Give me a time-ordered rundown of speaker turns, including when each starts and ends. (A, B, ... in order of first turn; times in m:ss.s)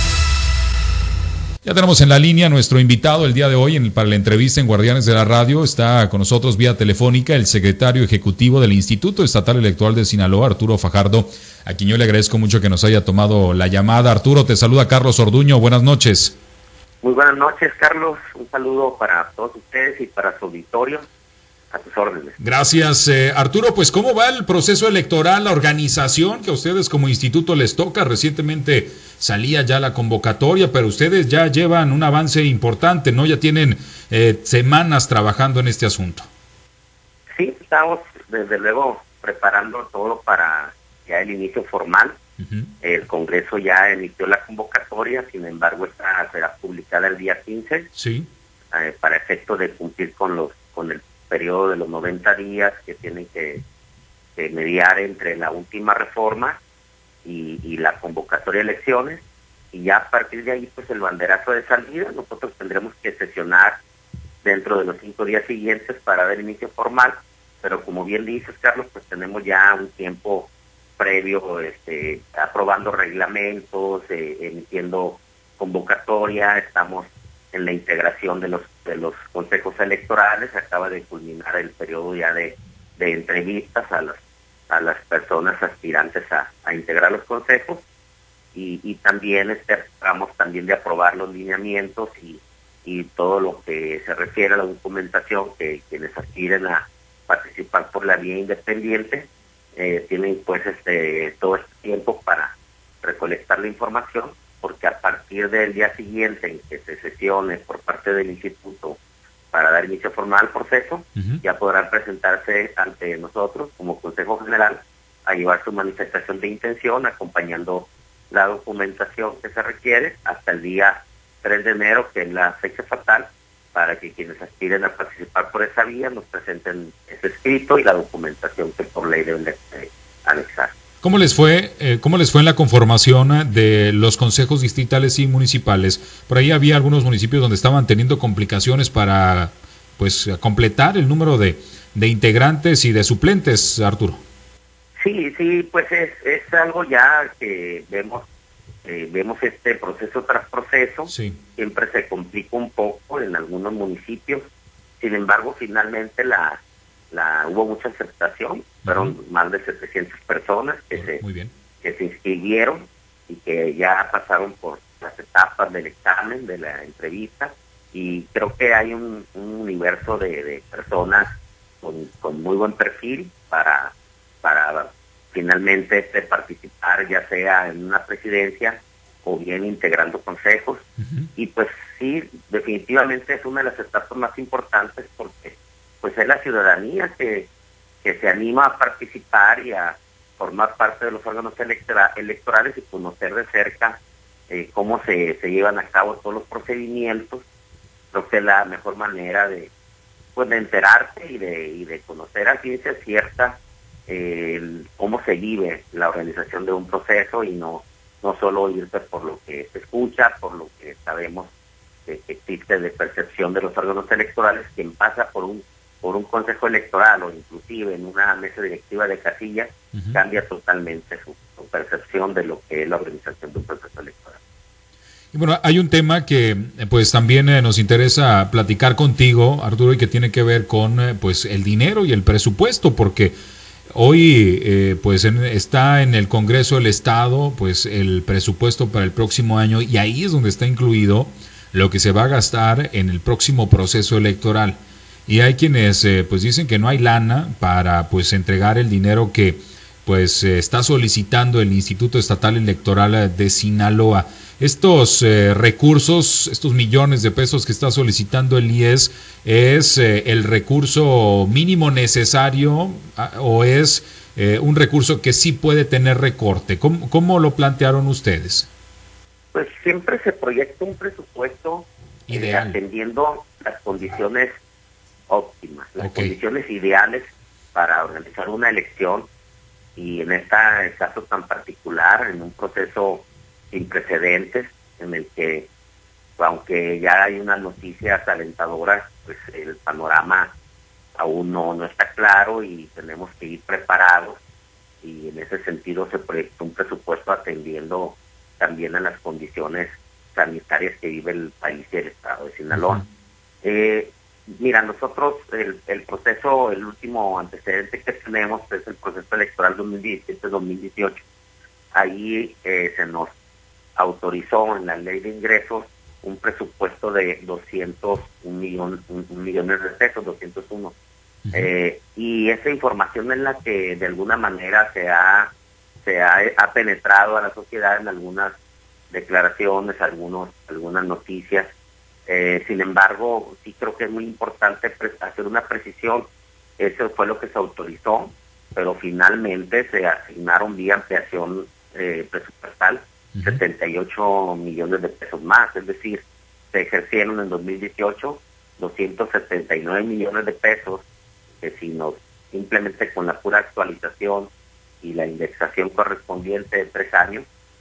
0:01.6-0:16.4 A
0:17.0-0:21.0 B
0:21.7-0:22.4 B
0:22.4-0:36.3 A
0:37.4-0:42.2 B
0:42.4-0:42.7 A
0:42.8-0:47.9 B
0:47.9-0:48.3 A
0:48.7-0:53.6 B
0:54.4-0:56.6 B
0:57.2-1:03.8 B
1:04.4-1:27.8 B
1:28.5-1:49.0 B
1:49.5-2:10.7 B
1:51.2-1:51.4 A
2:11.0-2:24.2 A
2:25.0-2:28.2 B
2:28.8-2:34.5 B
2:31.1-2:31.4 A
2:35.0-2:36.6 B
2:37.1-2:41.2 B
2:38.8-2:39.2 A
2:40.9-2:41.5 A
2:41.8-2:51.3 B
2:51.8-3:00.8 B
3:01.0-3:01.3 A
3:01.4-3:07.5 B
3:08.0-3:14.0 B
3:14.5-3:17.4 B
3:18.1-3:19.7 B
3:20.3-3:31.5 B
3:32.0-3:44.4 B
3:45.3-3:53.3 A
3:53.9-4:28.7 A
4:29.5-4:34.6 B
4:32.3-4:32.8 A
4:35.3-4:39.3 B
4:36.0-4:36.3 A
4:40.0-4:45.7 B
4:46.4-4:50.5 B
4:51.1-4:54.4 B
4:55.0-5:03.0 B
5:02.7-5:03.0 A
5:03.6-5:11.2 B
5:11.9-5:13.3 B
5:14.0-5:20.9 B
5:21.4-5:21.7 A
5:21.5-5:25.5 B
5:26.0-5:28.6 B
5:29.1-5:31.7 B
5:32.3-5:36.3 B
5:36.8-5:51.0 B
5:43.3-5:43.6 A
5:51.6-5:54.5 B
5:55.0-5:57.4 B